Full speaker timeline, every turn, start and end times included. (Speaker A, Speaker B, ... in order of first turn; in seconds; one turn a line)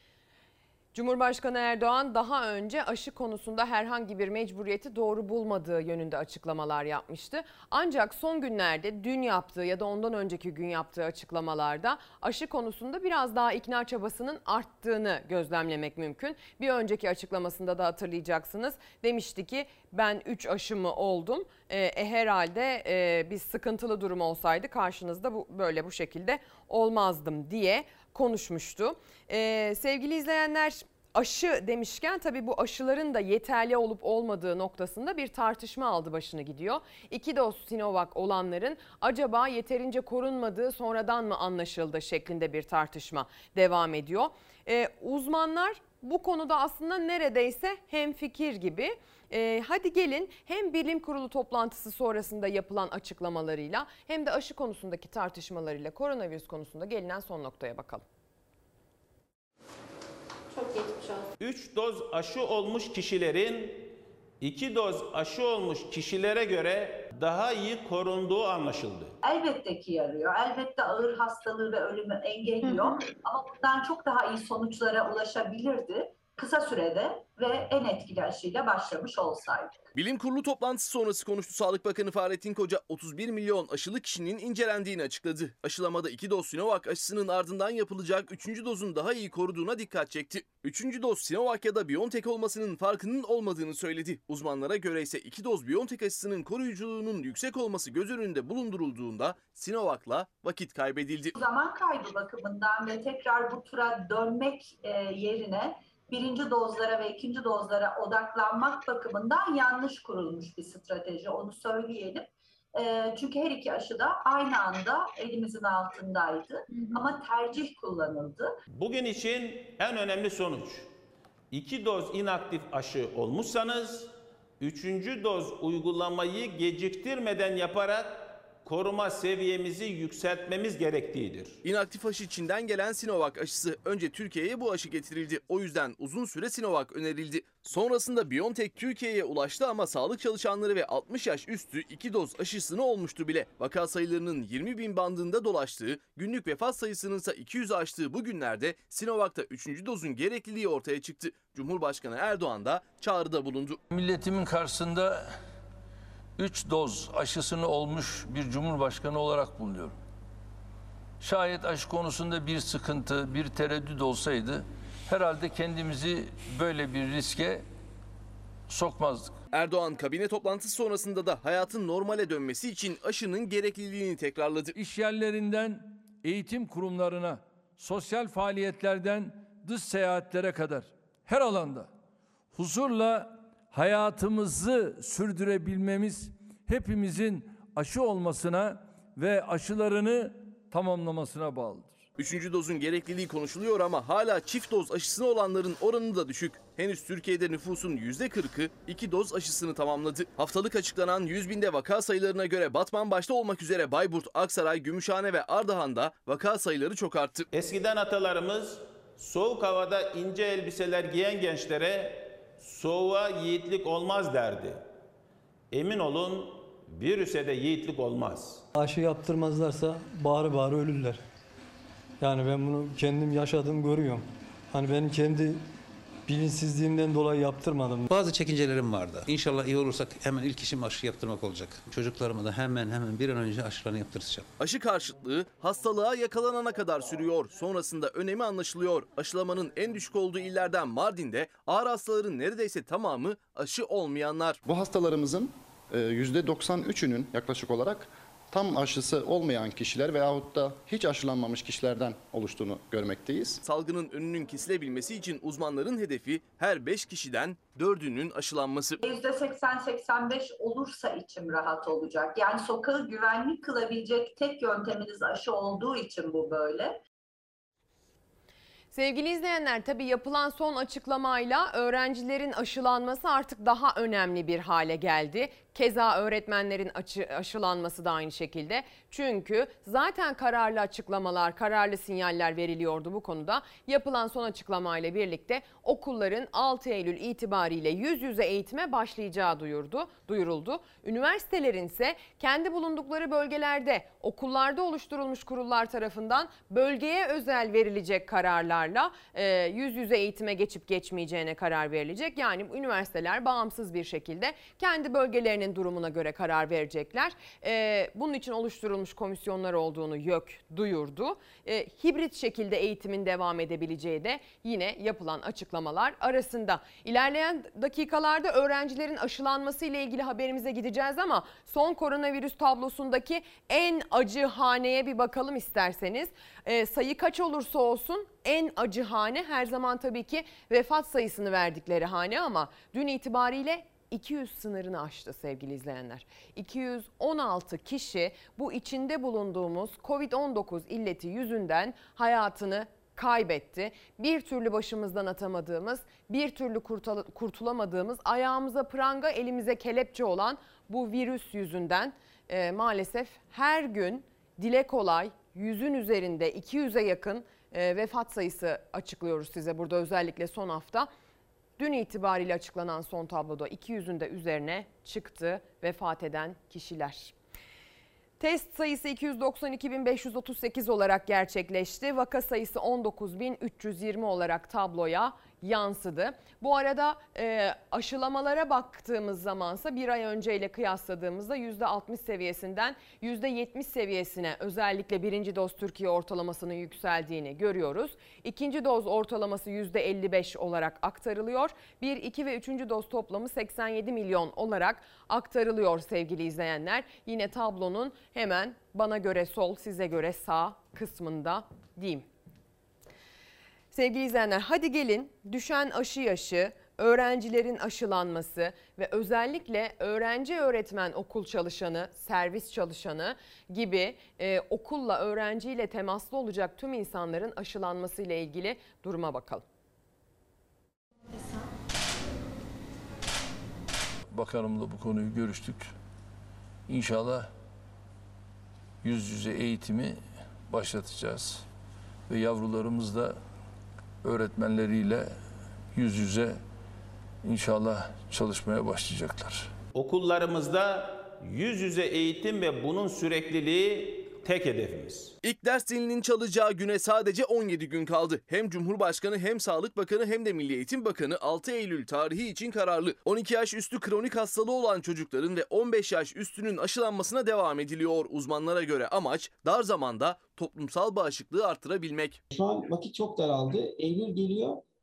Speaker A: 0.9-58.0
Speaker B: 61.4-69.1
Speaker C: 69.2-79.8
Speaker D: 79.9-101.3
Speaker C: 101.3-118.6
Speaker B: 118.7-120.9
Speaker B: 121.5-131.6
Speaker D: 131.6-153.8
Speaker E: 153.9-155.2
Speaker E: 156.4-159.9
Speaker E: 161.2-167.7
Speaker E: 168.7-169.4
Speaker D: 169.5-174.7
Speaker E: 174.7-181.9
Speaker E: 182.5-192.0
Speaker D: 192.2-207.5
Speaker B: 207.5-214.8
Speaker B: 215.7-218.6
Speaker F: 218.7-221.2
Speaker F: 222.2-225.7
Speaker F: 226.3-228.1
Speaker G: 228.1-234.5
Speaker D: 234.6-244.6
Speaker H: 244.6-253.6
Speaker D: 253.6-259.0
Speaker C: 259.0-267.0
Speaker A: 268.9-361.1
Speaker A: 361.8-367.3
Speaker A: 368.4-402.2
Speaker A: 403.9-419.6
Speaker E: 424.3-425.9
Speaker E: 426.9-427.5
Speaker E: 429.0-431.6
Speaker E: 432.3-433.4
Speaker E: 434.2-435.3
Speaker E: 435.9-436.6
Speaker E: 437.4-439.7
Speaker B: 439.9-445.3
Speaker D: 445.4-462.4
Speaker I: 462.5-464.8